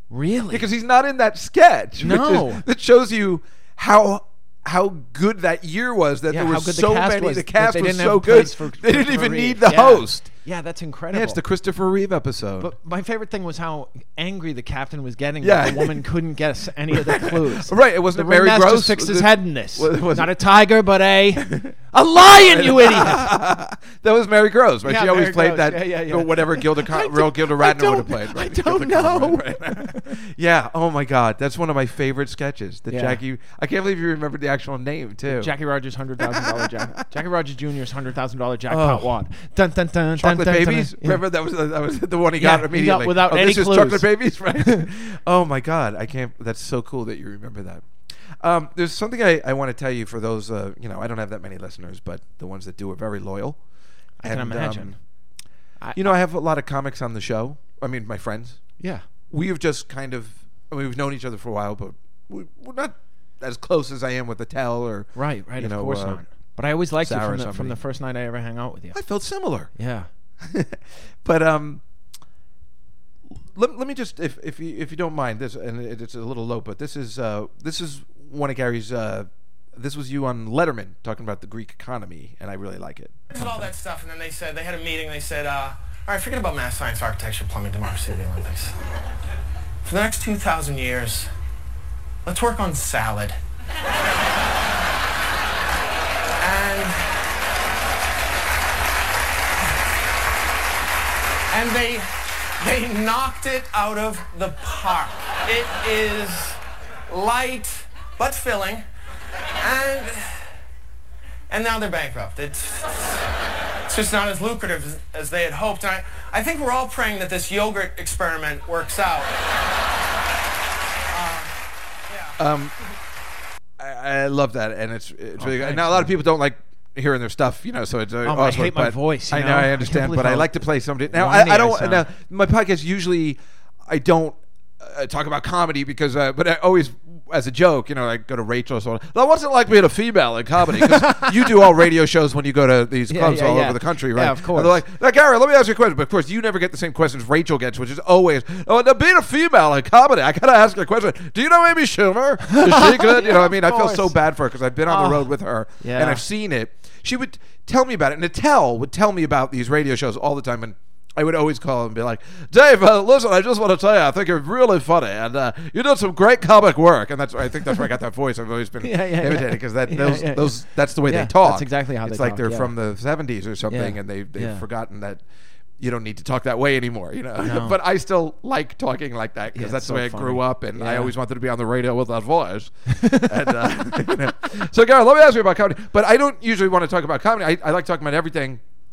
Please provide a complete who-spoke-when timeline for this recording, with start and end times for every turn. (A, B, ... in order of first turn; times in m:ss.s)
0:00.1-0:00.7 A
0:00.5-0:10.3 B
0:02.0-0:02.6 A
0:06.3-0:11.4 A
0:11.1-0:12.7 B
0:12.6-0:23.3 A
0:15.4-0:16.1 B
0:16.9-0:20.4 B
0:21.4-0:35.5 B
0:24.8-0:30.1 A
0:32.9-0:33.2 A
0:35.3-0:41.2 A
0:36.2-0:37.0 B
0:38.7-0:39.2 B
0:40.2-0:53.6 B
0:42.4-0:44.9 A
0:54.2-0:55.0 A
0:54.2-0:55.0 B
0:55.9-0:58.6 B
0:58.8-0:59.0 A
0:59.3-1:06.2 B
1:05.2-1:09.0 A
1:07.0-1:07.8 B
1:08.9-1:09.7 B
1:09.8-1:10.1 A
1:10.4-1:11.8 B
1:13.5-1:23.7 B
1:23.3-1:28.7 C
1:29.8-1:31.3 C
1:32.2-1:33.4 C
1:36.4-1:37.1 C
1:41.5-1:48.8 C
1:49.6-1:50.5 C
1:51.5-1:53.2 C
1:53.9-1:59.4 C
2:01.1-2:01.6 C
2:02.1-2:02.4 C
2:02.4-2:02.7 B
2:03.8-2:55.2 B
2:05.4-2:06.2 A
2:08.2-2:10.6 A
2:11.1-2:12.1 A
2:20.8-2:21.3 A
2:23.1-2:24.8 A
2:32.5-2:34.2 A
2:34.9-2:36.2 A
2:48.8-2:52.7 A
2:53.7-2:54.6 A
2:55.8-3:08.6 B
2:57.4-2:57.8 A
2:59.5-3:01.1 A
3:02.9-3:03.5 A